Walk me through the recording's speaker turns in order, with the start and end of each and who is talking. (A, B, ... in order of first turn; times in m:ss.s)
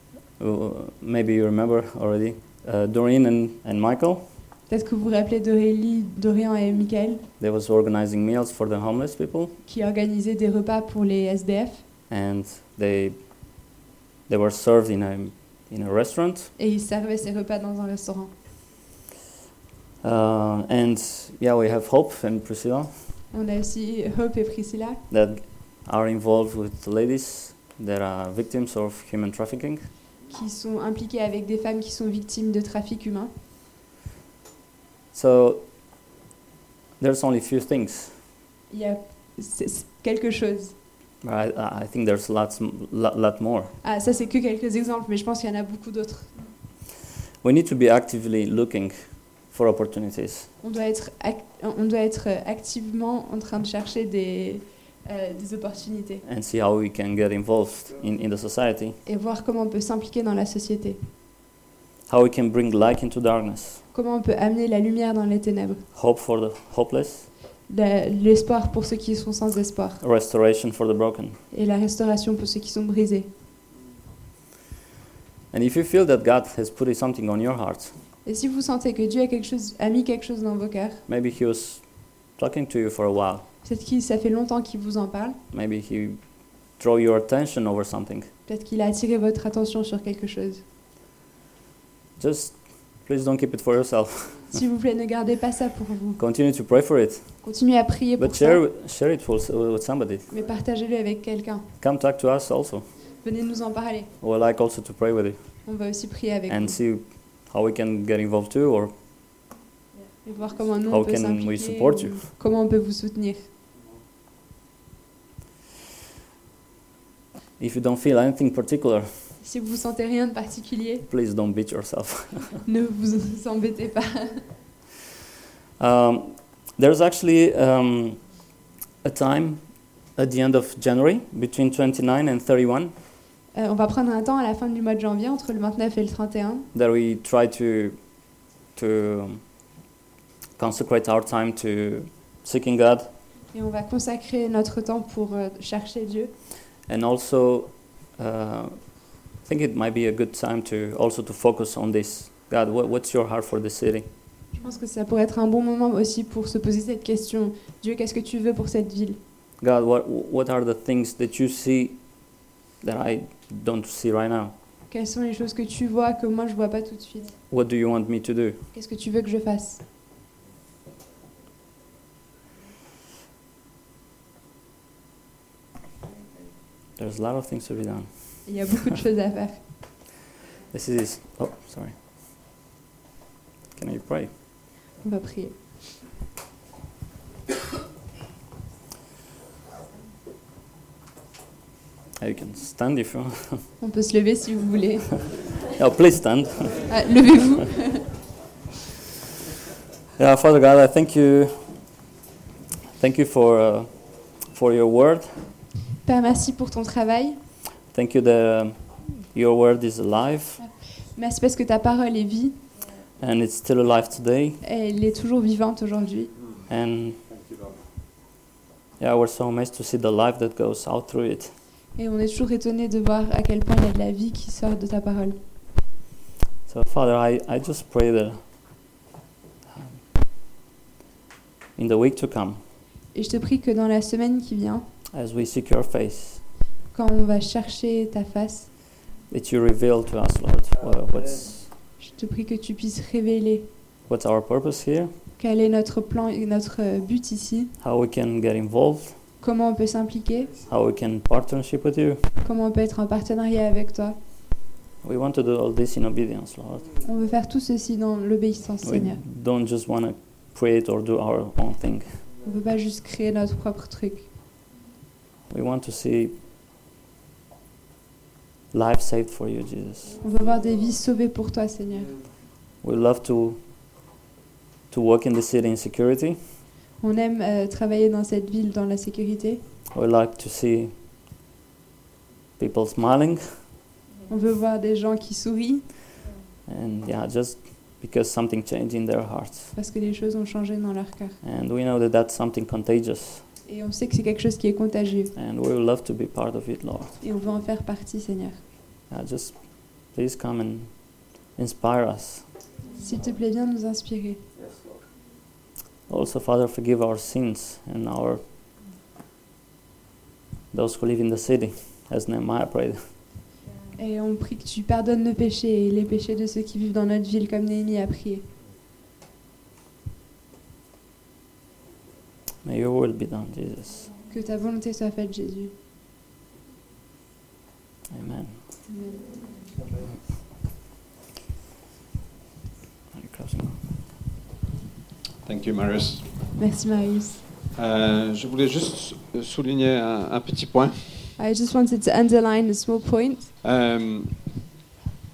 0:00.4-0:04.2 A
0:04.7-0:07.2 B
0:07.4-0:09.6 A
0:09.6-0:11.8 B
0:12.1-0:13.2 A
0:14.3-0:16.5 A
0:16.6-0:18.3 B
0:20.0-0:22.9 A
0:23.3-0:25.0 B
0:25.1-0:29.9 A
0:30.3-0:33.3 B
0:35.1-0:35.6 A
0:37.0-0:38.1 A
0:38.7-0:40.7 B
0:41.2-0:43.7 A
0:43.8-0:46.4 B
0:47.4-0:48.9 A
0:49.5-0:50.5 A
0:50.6-0:56.2 B
0:56.2-0:59.0 A
0:59.0-1:01.0 B
1:02.1-1:03.8 A
1:03.9-1:05.8 B
1:05.9-1:07.3 A
1:07.7-1:10.0 B
1:10.0-1:11.4 A
1:11.5-1:13.3 B
1:15.5-1:17.9 A
1:18.2-1:21.0 B
1:21.1-1:21.8 A
1:22.4-1:23.4 A
1:23.6-1:25.4 B
1:25.5-1:26.2 A
1:26.8-1:28.3 A
1:28.5-1:30.6 B
1:32.2-1:34.6 A
1:34.5-1:36.2 B
1:36.2-1:37.3 A
1:37.4-1:38.6 B
1:38.2-1:40.3 A
1:40.3-1:41.6 B
1:41.8-1:42.8 A
1:43.2-1:44.1 B
1:44.2-1:45.4 A
1:45.6-1:46.8 B
1:46.5-1:48.9 A
1:50.2-1:53.5 B
1:50.9-1:52.2 A
1:57.6-1:59.1 A
1:59.4-2:01.0 B
2:01.1-2:02.6 A
2:02.6-2:04.4 B
2:05.8-2:08.2 A
2:09.0-2:09.6 A
2:10.2-2:12.9 A
2:13.5-2:16.7 B
2:16.7-2:18.0 A
2:18.7-2:19.4 A
2:20.6-2:23.1 A
2:23.5-2:26.3 B
2:26.9-2:28.8 A
2:29.4-2:34.1 A
2:34.6-2:39.2 B
2:39.6-2:42.0 A
2:42.8-2:44.5 A
2:44.9-2:47.3 B
2:47.5-2:48.6 A
2:48.7-2:49.8 B
2:57.0-2:58.1 A
2:58.4-2:59.6 B
3:00.7-3:01.9 A
3:03.8-3:04.3 A
3:05.0-3:05.6 B
3:12.2-3:13.6 A
3:13.8-3:15.2 B
3:15.7-3:16.9 A
3:16.9-3:18.1 B
3:20.2-3:21.7 A
3:23.0-3:23.9 A
3:24.5-3:25.4 A
3:26.0-3:27.4 B
3:27.9-3:30.6 A
3:30.6-3:32.6 B
3:33.2-3:34.6 A
3:34.6-3:36.3 B
3:36.7-3:37.2 A
3:39.0-3:41.5 A
3:42.0-3:45.4 B
3:46.7-3:48.4 A
3:51.8-3:52.6 A
3:53.1-3:54.8 B
3:55.1-3:56.4 A
3:56.9-3:58.7 B
3:59.3-4:01.7 A
4:02.0-4:03.7 B
4:04.1-4:05.1 A
4:05.4-4:07.7 B
4:07.8-4:09.2 A
4:09.4-4:10.5 B
4:10.7-4:12.2 A
4:12.4-4:14.2 B
4:15.0-4:17.0 A
4:17.0-4:19.2 B
4:18.8-4:22.0 A
4:22.4-4:24.3 B
4:25.5-4:26.3 A
4:28.7-4:30.2 A
4:30.2-4:32.1 B
4:32.8-4:33.6 A
4:34.9-4:36.4 A
4:37.0-4:39.6 B
4:39.9-4:40.9 A
4:42.6-4:43.4 A
4:44.3-4:45.8 B
4:46.7-4:49.7 A
4:49.7-4:51.4 B
4:51.4-4:53.4 A
4:53.7-4:55.3 B
4:55.4-4:57.2 A
4:57.2-4:58.6 B
4:59.1-4:59.5 A
5:00.1-5:00.9 A
5:01.6-5:02.4 A
5:03.0-5:04.4 B
5:06.1-5:08.4 A
5:10.7-5:13.0 A
5:13.9-5:18.4 B
5:22.6-5:24.0 A
5:24.3-5:25.7 B
5:28.1-5:28.6 A
5:28.9-5:29.2 B
5:33.1-5:33.8 A
5:35.4-5:36.2 C
5:36.6-5:37.4 B
5:37.8-5:41.3 C
5:41.4-5:43.5 B
5:43.6-5:44.3 C